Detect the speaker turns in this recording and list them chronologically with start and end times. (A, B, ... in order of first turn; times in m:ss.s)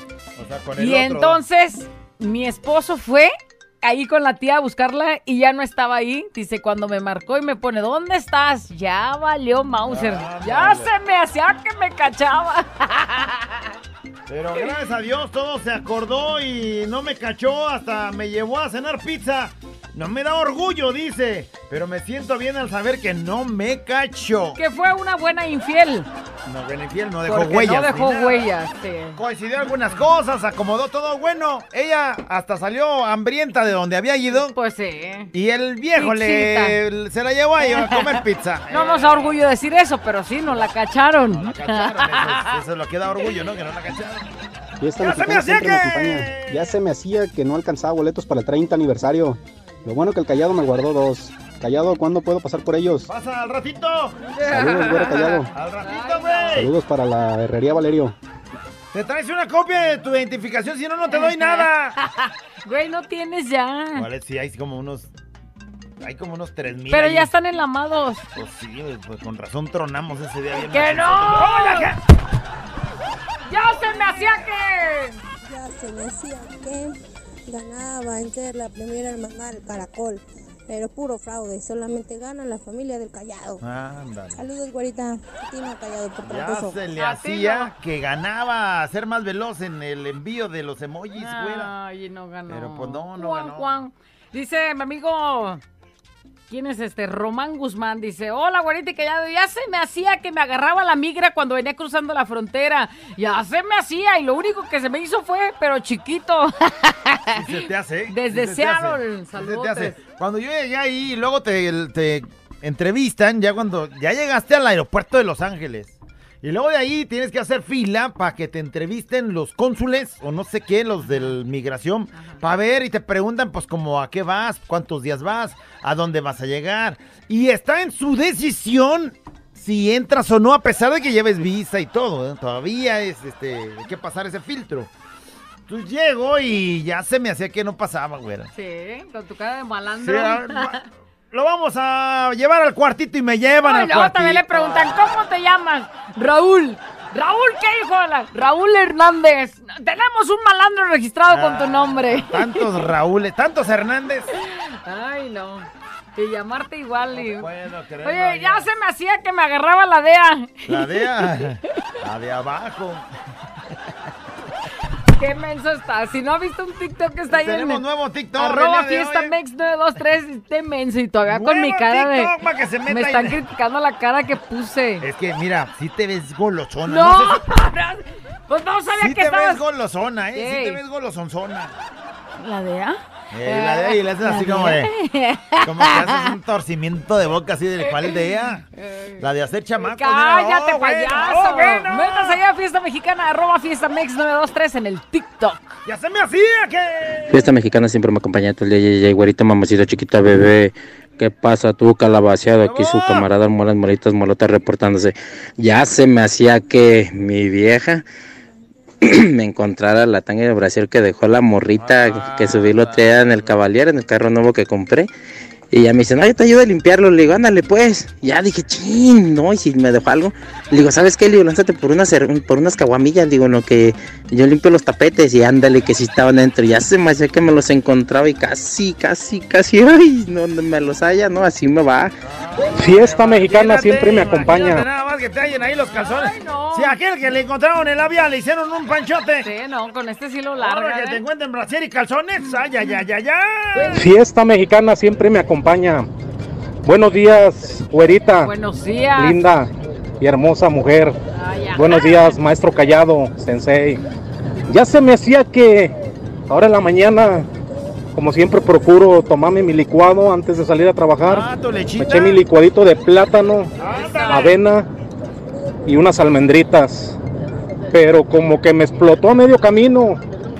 0:00.4-0:01.4 A
0:00.8-0:13.4 B
0:09.8-0:10.9 A
0:14.3-0:24.6 A
0:24.6-0:26.1 B
0:26.4-0:28.4 A
0:27.3-0:29.2 B
0:29.2-0:34.6 A
0:34.3-0:35.3 B
0:35.3-0:39.4 A
0:36.0-0:36.8 B
0:37.7-0:38.2 B
0:38.7-0:42.5 B
0:41.3-0:44.3 A
0:44.8-0:53.1 C
0:45.0-0:46.7 A
0:53.0-0:54.3 A
0:54.4-0:56.6 B
0:54.5-0:55.5 C
0:55.5-0:56.7 A
0:56.5-0:58.1 C
0:58.9-1:02.0 A
1:01.1-1:04.0 B
1:03.9-1:05.1 A
1:06.0-1:07.3 A
1:06.9-1:08.2 B
1:08.3-1:12.0 A
1:10.6-1:11.9 B
1:13.4-1:15.2 B
1:15.4-1:16.9 D
1:17.5-1:23.6 D
1:23.6-1:24.4 A
1:24.3-1:26.8 D
1:26.2-1:31.7 A
1:27.0-1:27.7 B
1:31.2-1:35.6 B
1:32.5-1:33.8 A
1:36.5-1:47.5 B
1:47.3-2:14.9 A
1:48.1-1:50.0 B
2:02.1-2:02.4 B
2:15.7-2:18.5 A
2:18.5-2:20.8 B
2:20.0-2:25.2 A
2:23.6-2:32.6 B
2:31.3-2:34.3 A
2:34.4-2:37.5 B
2:37.1-2:38.7 A
2:38.0-2:40.9 B
2:40.7-2:43.1 A
2:45.2-2:47.8 B
2:47.3-2:49.3 A
2:48.4-2:52.3 B
2:51.3-2:53.4 A
2:52.9-2:55.0 B
2:55.0-2:57.4 A
2:56.8-2:59.6 B
2:58.9-3:01.8 A
3:00.4-3:00.8 B
3:02.4-3:06.3 B
3:03.3-3:04.9 A
3:05.6-3:08.7 A
3:08.8-3:09.2 B
3:09.2-3:12.4 A
3:09.9-3:15.8 B
3:15.8-3:17.5 A
3:17.3-3:28.0 E
3:22.6-3:23.3 A
3:29.0-3:35.1 E
3:31.8-3:33.6 A
3:35.7-3:52.1 E
3:52.2-3:59.5 A
3:52.7-3:54.8 F
3:55.9-3:56.9 B
3:59.4-4:01.2 B
4:00.6-4:04.1 A
4:03.7-4:04.0 B
4:03.9-4:06.1 F
4:06.8-4:08.5 F
4:08.4-4:09.4 B
4:09.2-4:11.2 F
4:11.3-4:12.4 B
4:11.7-4:14.0 F
4:14.7-4:15.9 F
4:16.5-4:17.5 F
4:18.1-4:23.7 F
4:21.2-4:22.4 A
4:23.8-4:24.6 A
4:23.8-4:24.5 B
4:24.3-4:24.9 F
4:25.8-4:27.2 F
4:27.9-4:30.2 F